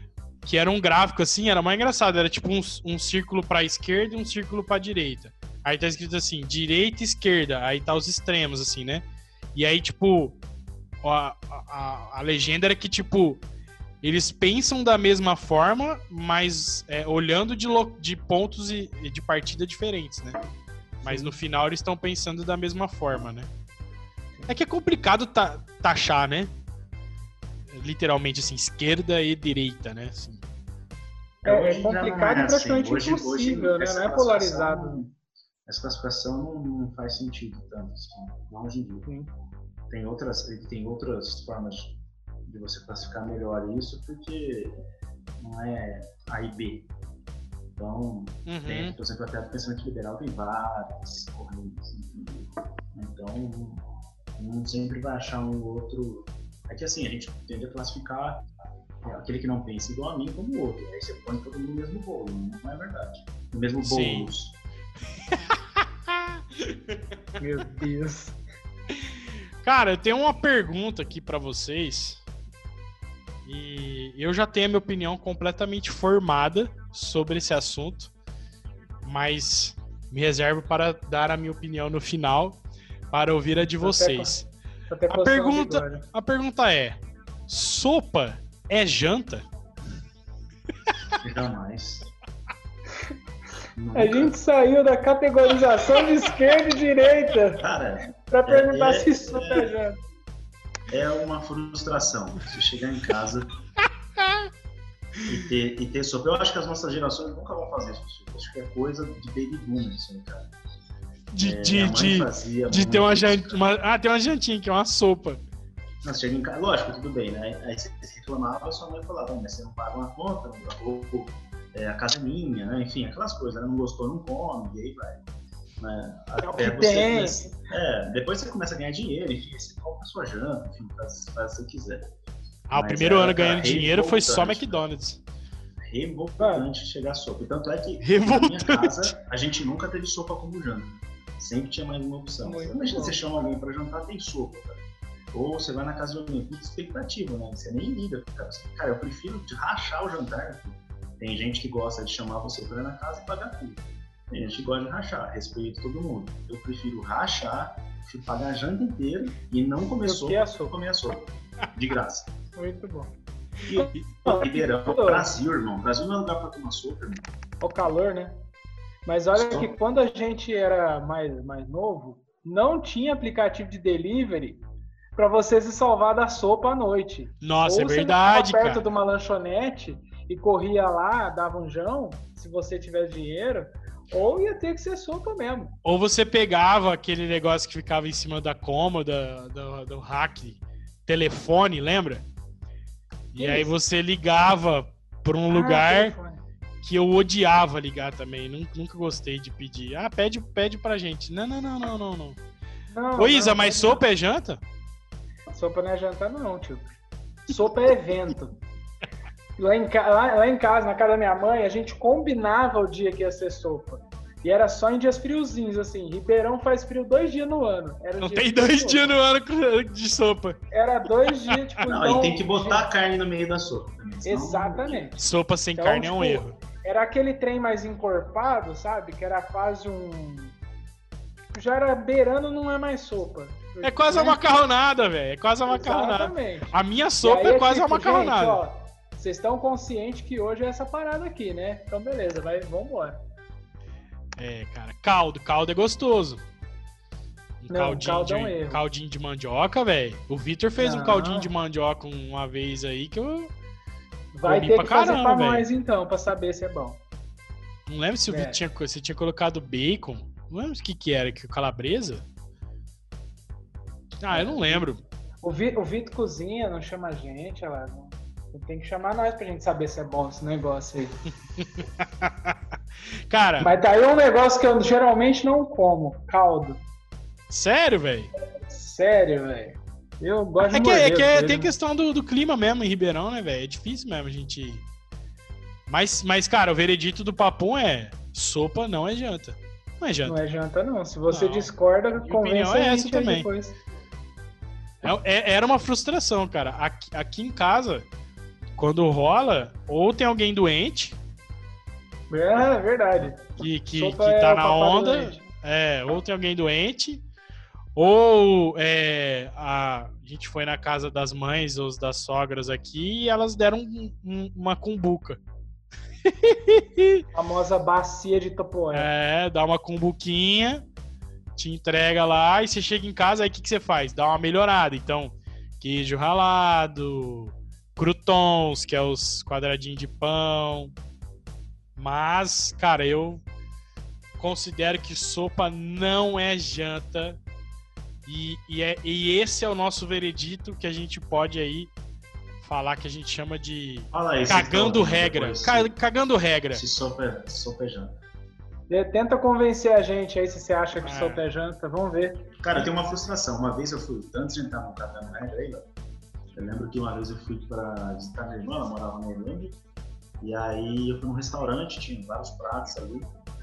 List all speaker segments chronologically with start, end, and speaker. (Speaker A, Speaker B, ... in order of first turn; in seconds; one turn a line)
Speaker A: 0.4-10.4
Speaker A: 11.0-13.4
Speaker A: 14.0-20.4
Speaker A: 21.0-23.5
Speaker B: 21.1-21.4
Speaker A: 24.5-26.5
Speaker A: 27.7-30.4
Speaker C: 31.4-35.1
Speaker B: 31.4-35.0
Speaker C: 35.6-39.1
Speaker C: 39.9-44.8
Speaker C: 45.4-46.9
Speaker C: 47.8-53.8
Speaker A: 48.5-48.9
Speaker C: 54.4-58.4
Speaker C: 59.0-64.6
Speaker A: 63.8-64.3
Speaker A: 65.3-67.0
Speaker B: 67.4-68.4
Speaker A: 68.9-72.2
Speaker A: 73.5-78.1
Speaker A: 79.0-82.6
Speaker A: 83.1-84.5
Speaker B: 83.6-84.3
Speaker B: 84.9-86.0
Speaker A: 85.1-89.4
Speaker C: 91.2-92.1
Speaker C: 93.8-94.3
Speaker B: 93.9-97.6
Speaker C: 97.6-99.7
Speaker B: 98.3-100.0
Speaker C: 100.9-103.5
Speaker A: 104.2-104.5
Speaker C: 105.3-110.5
Speaker A: 111.3-115.4
Speaker C: 111.4-113.6
Speaker C: 116.0-125.2
Speaker C: 125.8-132.2
Speaker B: 126.4-127.6
Speaker A: 132.7-135.2
Speaker C: 132.7-134.8
Speaker C: 135.9-162.3
Speaker B: 136.4-136.7
Speaker A: 138.0-139.1
Speaker B: 142.4-143.2
Speaker B: 160.0-160.7
Speaker B: 162.6-163.1
Speaker C: 163.6-167.3
Speaker B: 163.7-165.3
Speaker B: 167.6-168.4
Speaker B: 169.1-174.6
Speaker C: 169.3-169.7
Speaker B: 175.1-185.7
Speaker A: 177.4-178.8
Speaker A: 185.8-192.2
Speaker A: 193.3-196.1
Speaker B: 193.4-193.7
Speaker B: 195.5-196.4
Speaker A: 196.8-202.4
Speaker B: 202.9-204.0
Speaker A: 203.2-204.6
Speaker B: 205.5-206.9
Speaker B: 207.5-208.5
Speaker B: 209.6-219.1
Speaker A: 218.2-220.6
Speaker B: 220.7-222.8
Speaker C: 221.8-225.1
Speaker B: 224.2-225.2
Speaker A: 225.2-226.6
Speaker B: 225.7-230.5
Speaker B: 231.5-234.4
Speaker A: 233.8-238.6
Speaker B: 235.7-243.2
Speaker A: 244.4-246.4
Speaker A: 247.6-253.5
Speaker B: 247.7-248.8
Speaker B: 250.8-251.5
Speaker B: 254.3-257.0
Speaker A: 254.4-255.7
Speaker A: 257.9-262.2
Speaker B: 258.3-258.6
Speaker A: 264.2-265.0
Speaker B: 264.3-264.8
Speaker B: 265.4-271.1
Speaker A: 271.6-272.6
Speaker A: 273.3-273.7
Speaker B: 273.6-276.8
Speaker A: 277.5-278.3
Speaker B: 278.7-281.7
Speaker A: 280.6-284.8
Speaker A: 285.9-290.4
Speaker B: 290.3-293.8
Speaker A: 291.3-293.5
Speaker A: 295.0-298.1
Speaker A: 298.8-301.2
Speaker B: 302.3-305.4
Speaker A: 303.6-307.2
Speaker A: 307.9-315.4
Speaker A: 316.2-317.2
Speaker B: 317.3-319.1
Speaker A: 318.9-320.8
Speaker A: 321.6-330.9
Speaker A: 331.9-333.4
Speaker A: 334.4-337.4
Speaker A: 338.3-341.9
Speaker A: 342.6-346.8
Speaker C: 344.1-345.9
Speaker C: 346.7-348.1
Speaker B: 348.9-352.5
Speaker A: 351.0-351.4
Speaker C: 352.6-355.9
Speaker C: 356.5-359.8
Speaker C: 360.4-363.3